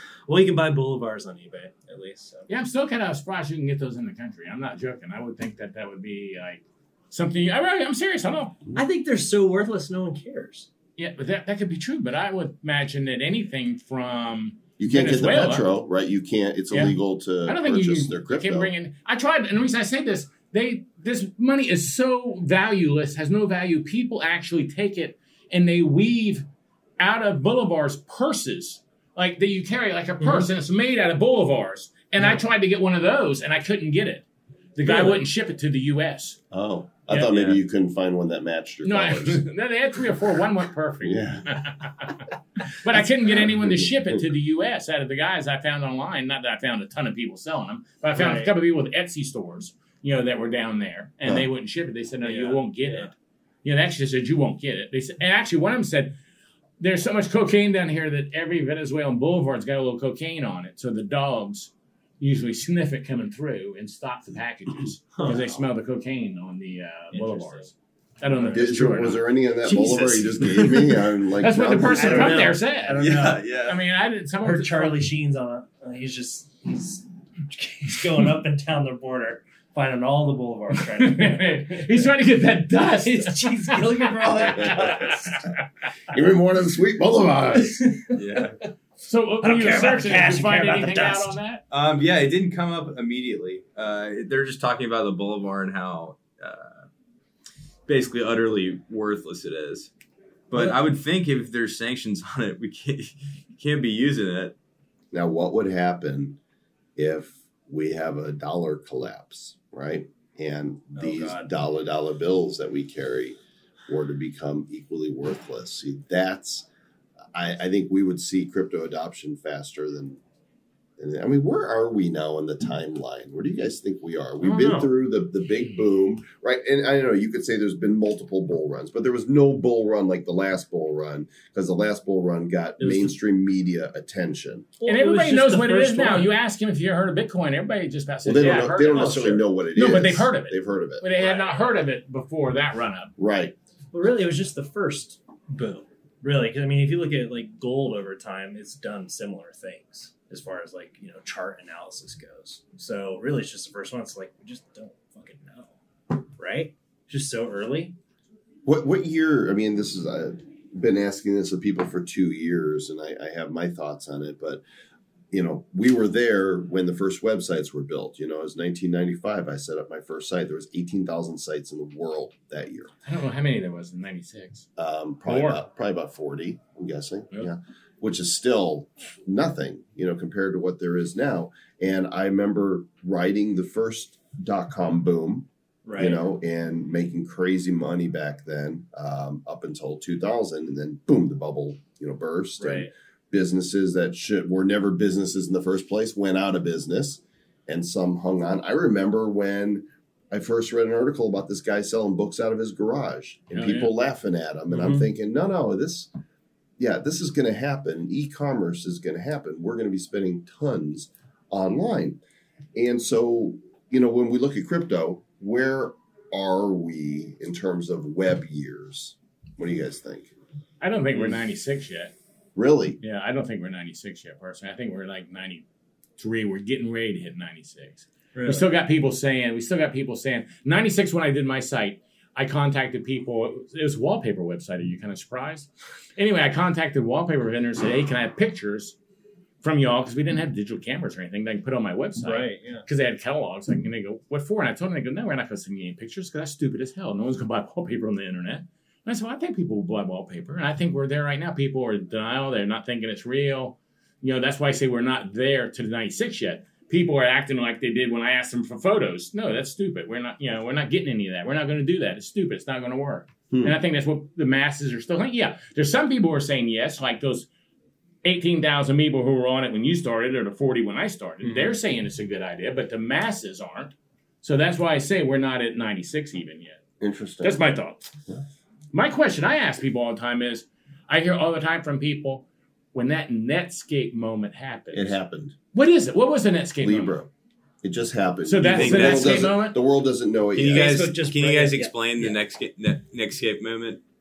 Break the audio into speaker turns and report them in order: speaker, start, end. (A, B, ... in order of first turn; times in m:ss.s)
0:00.3-0:02.5 A
0:02.5-0:08.6 B
0:08.7-0:10.7 A
0:11.0-0:15.7 B
0:14.8-0:18.7 C
0:16.7-0:26.4 B
0:27.0-0:36.4 B
0:30.2-0:30.4 A
0:36.5-0:39.4 C
0:37.3-0:37.6 D
0:38.8-0:53.1 B
0:41.0-0:41.7 C
0:43.0-0:43.9 C
0:48.2-0:48.5 A
0:52.2-0:53.1 A
0:53.6-0:56.2 B
0:56.8-1:09.2 B
1:05.2-1:05.6 A
1:07.1-1:07.6 A
1:08.3-1:09.1 A
1:08.5-1:12.5 C
1:09.6-1:11.1 D
1:11.4-1:13.0 B
1:11.9-1:13.5 A
1:13.0-1:13.8 D
1:13.6-1:15.0 B
1:14.4-1:22.0 A
1:20.7-1:25.4 B
1:23.0-1:25.5 A
1:24.3-1:24.9 C
1:26.1-1:27.9 C
1:28.0-1:28.4 A
1:28.1-1:28.6 D
1:29.0-1:31.6 B
1:29.4-1:31.4 A
1:31.7-1:36.9 D
1:37.9-1:39.9 D
1:40.5-1:44.5 D
1:45.1-1:46.4 C
1:47.0-1:53.4 C
1:51.0-1:51.4 A
1:53.9-1:56.7 C
1:57.3-2:00.2 C
2:01.0-2:14.7 C
2:04.4-2:04.9 A
2:12.8-2:13.1 A
2:14.8-2:16.3 A
2:14.8-2:23.1 B
2:18.2-2:21.1 C
2:18.7-2:19.4 A
2:21.2-2:21.8 A
2:23.2-2:23.5 C
2:23.9-2:38.0 A
2:38.6-2:44.6 C
2:45.3-2:52.9 C
2:53.0-2:54.6 B
2:54.8-3:26.1 C
2:55.3-2:55.6 B
3:05.8-3:06.2 A
3:12.6-3:12.9 A
3:23.5-3:23.9 B
3:24.7-3:25.0 A
3:26.8-3:32.2 C
3:32.7-3:40.3 C
3:40.8-3:42.1 B
3:42.5-3:43.0 C
3:43.0-3:45.6 B
3:46.2-3:59.0 B
3:48.3-3:48.7 A
3:59.6-4:27.5 B
4:02.2-4:02.8 A
4:23.5-4:23.8 C
4:28.2-4:36.8 B
4:31.4-4:31.8 A
4:37.0-4:37.6 C
4:37.4-4:38.1 B
4:38.9-4:45.2 B
4:44.9-4:45.6 C
4:45.7-4:47.2 B
4:46.8-4:47.3 C
4:47.8-4:51.0 C
4:48.4-4:49.8 B
4:48.7-4:49.4 D
4:50.5-4:54.0 D
4:50.7-4:52.4 A